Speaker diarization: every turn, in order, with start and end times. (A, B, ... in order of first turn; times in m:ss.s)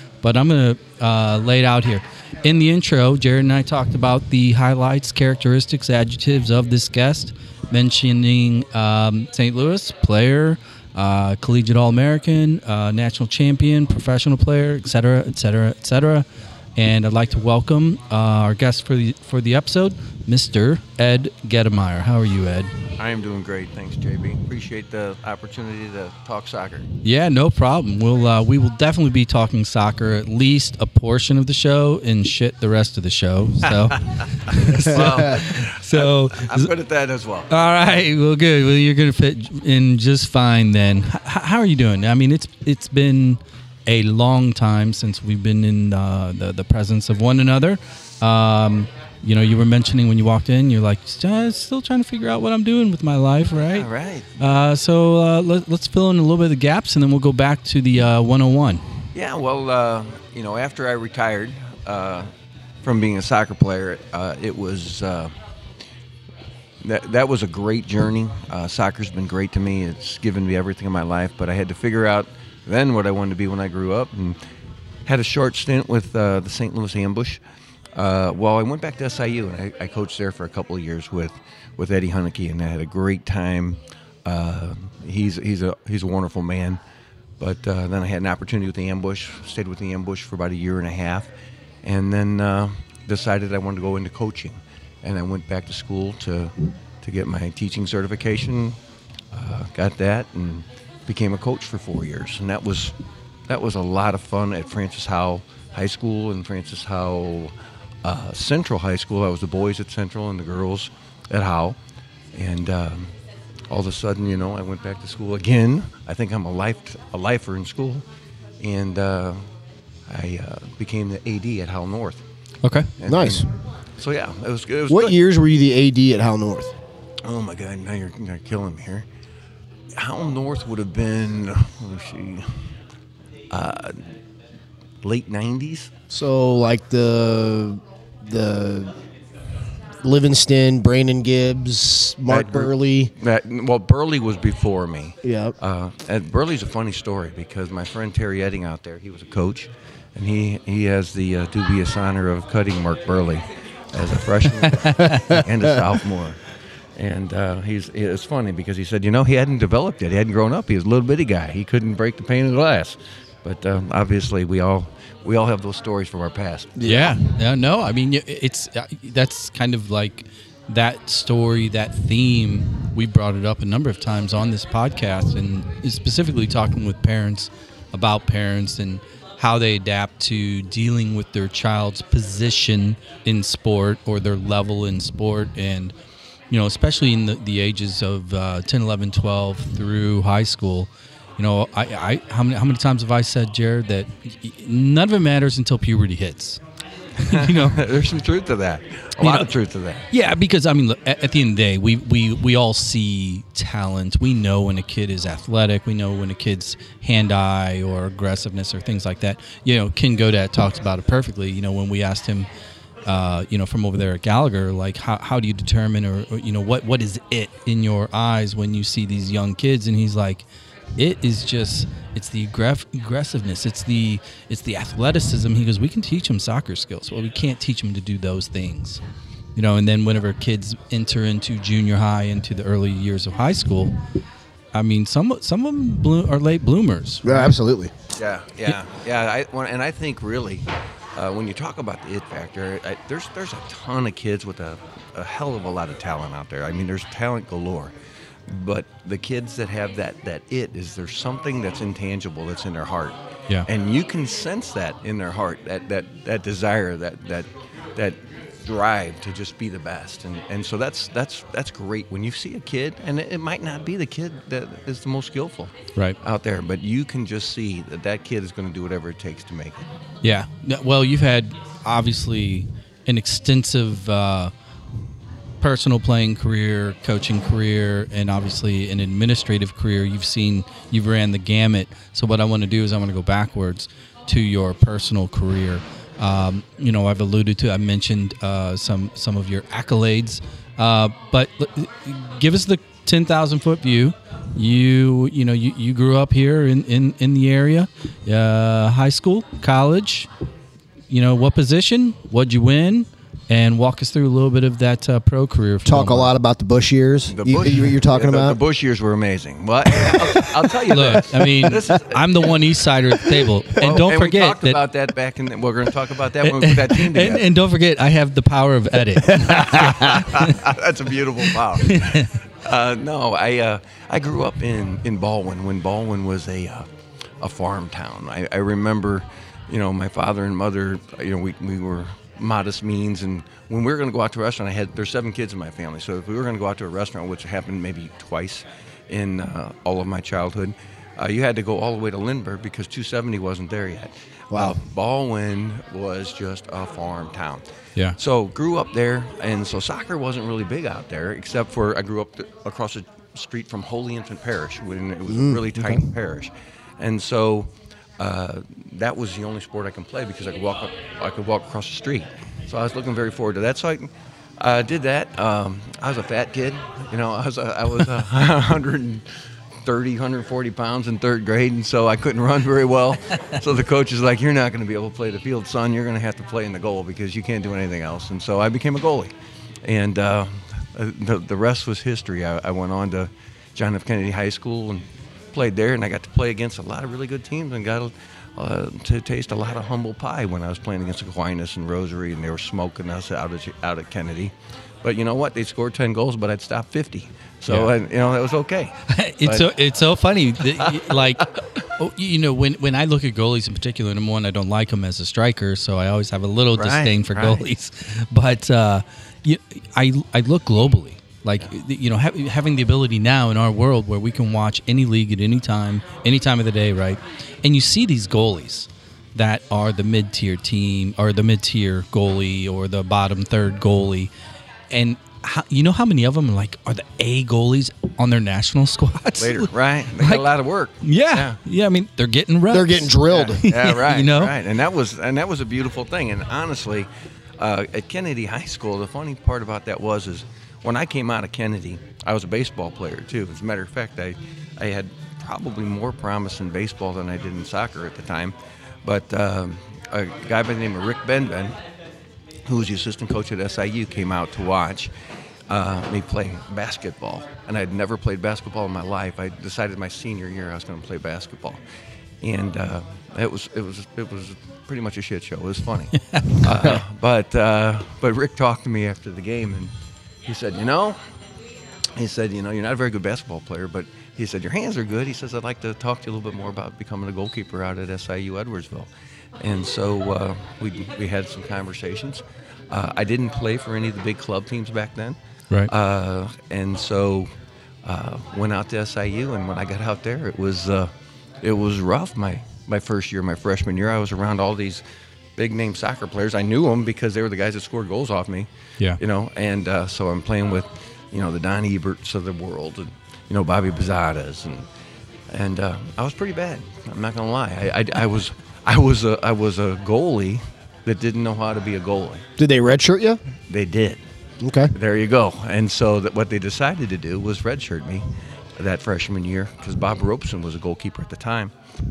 0:00.2-0:22.8 A
0:23.0-0:26.9 B
0:27.0-0:36.7 A
0:34.5-0:37.5 B
0:37.5-0:53.9 A
0:53.6-0:54.4 B
0:54.4-0:58.8 A
0:59.1-1:02.3 B
1:02.8-1:05.3 B
1:06.8-1:14.4 B
1:15.0-1:17.4 B
1:17.9-1:26.8 B
1:27.4-1:31.3 B
1:31.8-1:38.8 B
1:39.3-1:42.9 B
1:43.5-1:51.8 B
1:52.3-1:53.1 B
1:53.7-1:58.0 B
1:58.6-1:59.4 B
2:00.1-2:02.2 B
2:02.6-2:02.9 A
2:03.0-2:03.5 B
2:03.1-2:03.6 C
2:04.0-2:05.2 B
2:04.9-2:06.7 C
2:07.2-2:09.0 B
2:10.0-2:12.7 B
2:13.5-2:14.0 B
2:15.0-2:15.9 B
2:16.1-2:18.9 C
2:20.0-2:23.1 C
2:22.3-2:36.4 B
2:25.2-2:25.5 C
2:34.6-2:35.4 A
2:37.0-2:47.0 B
2:46.8-2:47.2 C
2:46.8-3:05.9 A
3:06.5-3:16.6 A
3:17.2-3:17.8 A
3:17.2-3:20.0 B
3:19.2-3:19.5 A
3:20.1-3:32.5 A
3:33.0-3:40.4 A
3:41.0-3:49.0 A
3:49.6-3:54.0 A
3:54.7-3:57.5 A
3:57.2-3:57.9 C
3:58.2-4:07.9 B
4:08.5-4:13.1 B
4:13.7-4:29.9 B
4:30.2-4:34.5 A
4:35.6-5:00.3 A
5:01.1-5:06.3 A
5:05.8-5:08.6 C
5:07.3-5:12.6 B
5:10.0-5:10.6 C
5:10.9-5:14.8 A
5:13.7-5:17.5 B
5:16.4-5:20.6 A
5:19.4-5:26.9 B
5:19.8-5:20.1 C
5:21.8-5:22.4 A
5:27.4-5:47.6 B
5:44.5-5:44.8 C
5:48.2-6:39.7 B
5:55.3-5:56.0 C
6:39.1-7:04.3 A
6:40.8-6:41.6 B
6:46.8-6:47.6 B
7:04.9-7:10.4 A
7:09.4-7:11.6 B
7:11.0-7:14.6 A
7:12.7-7:13.6 C
7:13.3-7:31.8 B
7:32.6-7:35.1 B
7:35.7-7:41.8 B
7:42.4-7:49.9 B
7:46.2-7:46.6 A
7:50.4-7:51.2 B
7:52.2-7:59.1 B
7:59.6-8:05.4 B
8:05.9-8:07.5 B
8:08.0-8:15.0 B
8:15.6-8:18.7 B
8:19.2-8:24.9 B
8:25.5-8:32.4 B
8:32.6-8:33.4 C
8:33.7-8:34.2 B
8:34.6-8:34.9 C
8:34.9-8:41.7 B